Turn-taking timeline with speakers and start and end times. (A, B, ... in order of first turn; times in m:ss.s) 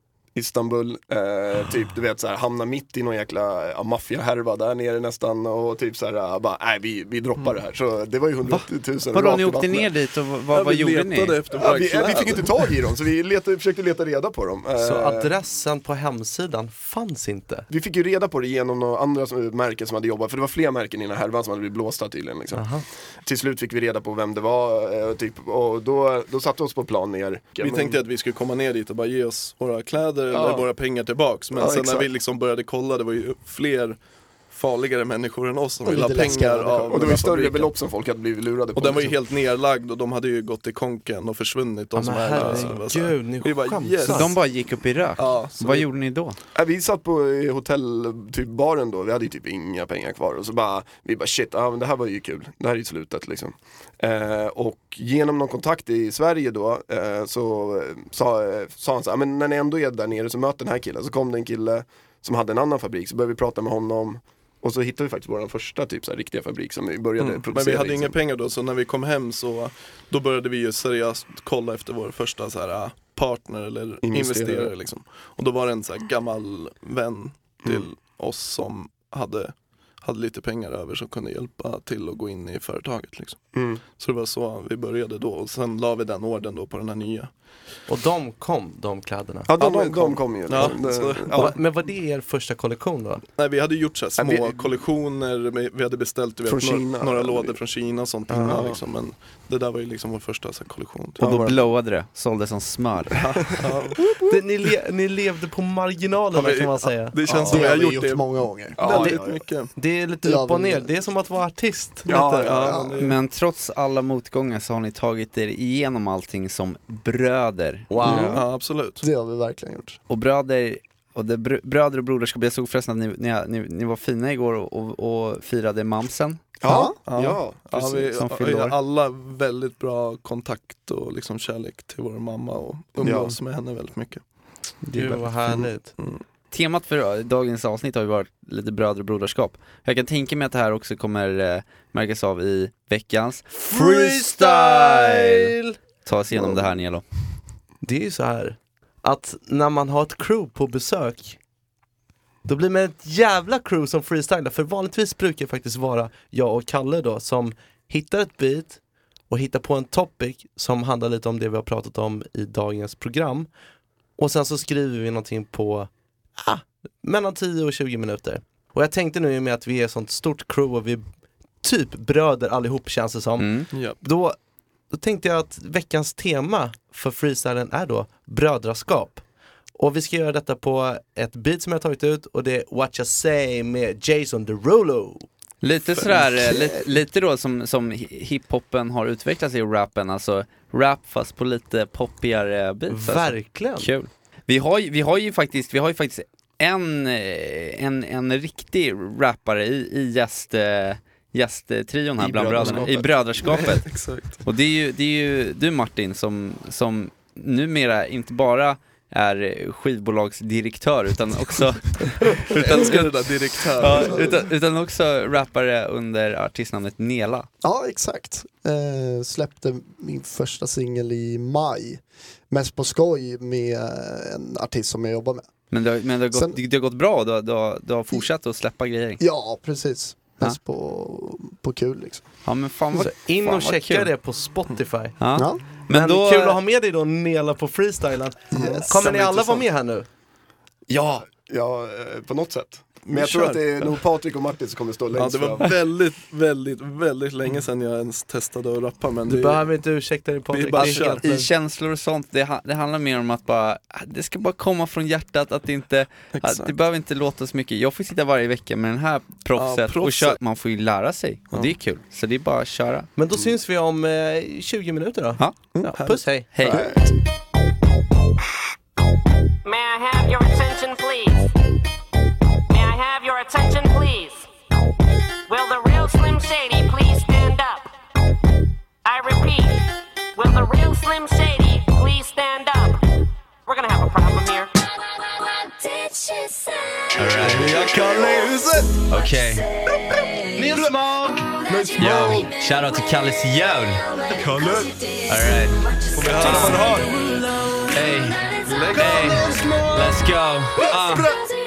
0:00.3-0:09.9 A
0:08.5-0:11.5 B
0:10.5-0:12.7 C
0:11.5-0:15.3 A
0:14.8-0:17.7 D
0:17.7-0:28.0 A
0:22.5-0:22.8 D
0:27.6-0:37.7 C
0:30.3-0:30.6 A
0:31.5-0:32.1 A
0:35.8-0:37.5 E
0:36.9-0:39.2 A
0:38.7-0:44.6 C
0:41.9-0:44.4 D
0:42.3-0:42.7 A
0:44.1-0:46.4 B
0:45.2-0:45.9 C
0:46.5-1:08.2 A
1:07.2-1:27.3 C
1:14.0-1:14.7 A
1:17.6-1:17.9 A
1:23.5-1:23.8 A
1:27.9-1:29.5 D
1:29.5-1:31.6 A
1:29.6-1:31.6 C
1:31.3-1:33.2 D
1:33.4-1:41.2 C
1:34.2-1:34.7 A
1:36.5-1:37.6 A
1:38.3-1:38.6 D
1:38.4-1:38.8 A
1:41.2-1:41.6 A
1:41.2-1:43.5 B
1:43.1-1:44.0 C
1:44.2-1:47.2 D
1:46.3-1:49.7 C
1:47.3-1:47.7 A
1:47.4-1:49.3 E
1:48.8-1:49.5 A
1:49.8-1:52.5 D
1:50.2-1:51.0 E
1:52.0-1:52.8 A
1:52.0-1:53.0 E
1:52.4-1:53.2 C
1:53.0-1:57.9 B
1:57.9-1:58.4 D
1:58.0-1:58.4 E
1:58.0-1:58.4 A
1:58.1-1:59.0 C
1:59.0-2:00.0 E
2:00.1-2:06.4 B
2:06.6-2:08.2 A
2:06.7-2:07.0 E
2:07.0-2:14.2 C
2:08.2-2:08.8 B
2:13.0-2:13.4 A
2:14.8-2:15.6 B
2:14.9-2:15.9 D
2:16.0-2:16.2 C
2:16.5-2:25.5 B
2:23.5-2:25.7 D
2:26.0-2:27.0 B
2:27.8-2:31.4 D
2:32.4-2:43.5 D
2:44.2-2:51.0 D
2:51.6-2:54.4 D
2:53.4-2:53.7 B
2:53.7-2:54.0 C
2:54.9-2:59.2 D
2:59.8-3:05.3 D
3:05.6-3:33.0 B
3:05.8-3:06.7 D
3:12.9-3:13.9 D
3:22.2-3:23.8 A
3:22.6-3:22.9 C
3:23.4-3:24.4 C
3:32.5-3:34.3 C
3:33.8-3:37.5 B
3:37.6-3:45.5 E
3:45.7-3:49.2 B
3:46.3-3:46.6 E
3:49.2-3:52.3 E
3:52.4-3:54.1 B
3:52.9-3:55.2 D
3:55.2-3:56.6 B
3:55.3-3:55.7 E
3:55.9-4:00.1 D
3:58.5-3:59.0 E
3:59.0-3:59.6 C
4:00.9-4:05.7 A
4:03.0-4:04.0 C
4:05.1-4:09.8 C
4:09.3-4:11.5 D
4:10.5-4:11.2 C
4:10.8-4:23.1 B
4:16.3-4:16.7 C
4:19.5-4:20.4 C
4:23.2-4:26.8 D
4:25.7-4:26.9 C
4:26.5-4:26.8 B
4:26.6-4:27.0 A
4:29.6-4:31.5 F
4:32.7-4:34.5 F
4:35.5-4:37.9 F
4:39.0-4:39.8 F
4:40.4-4:43.0 F
4:43.7-4:44.7 F
4:47.1-4:47.9 B
4:47.3-4:48.9 C
4:47.8-4:48.3 D
4:49.1-4:49.6 B
4:50.5-4:51.5 D
4:51.6-4:52.5 C
4:52.0-4:54.1 B
4:54.3-4:55.0 C
4:55.2-4:56.9 B
4:56.1-4:57.1 C
4:57.9-5:01.3 B
4:58.6-4:59.6 C
4:58.7-4:59.4 D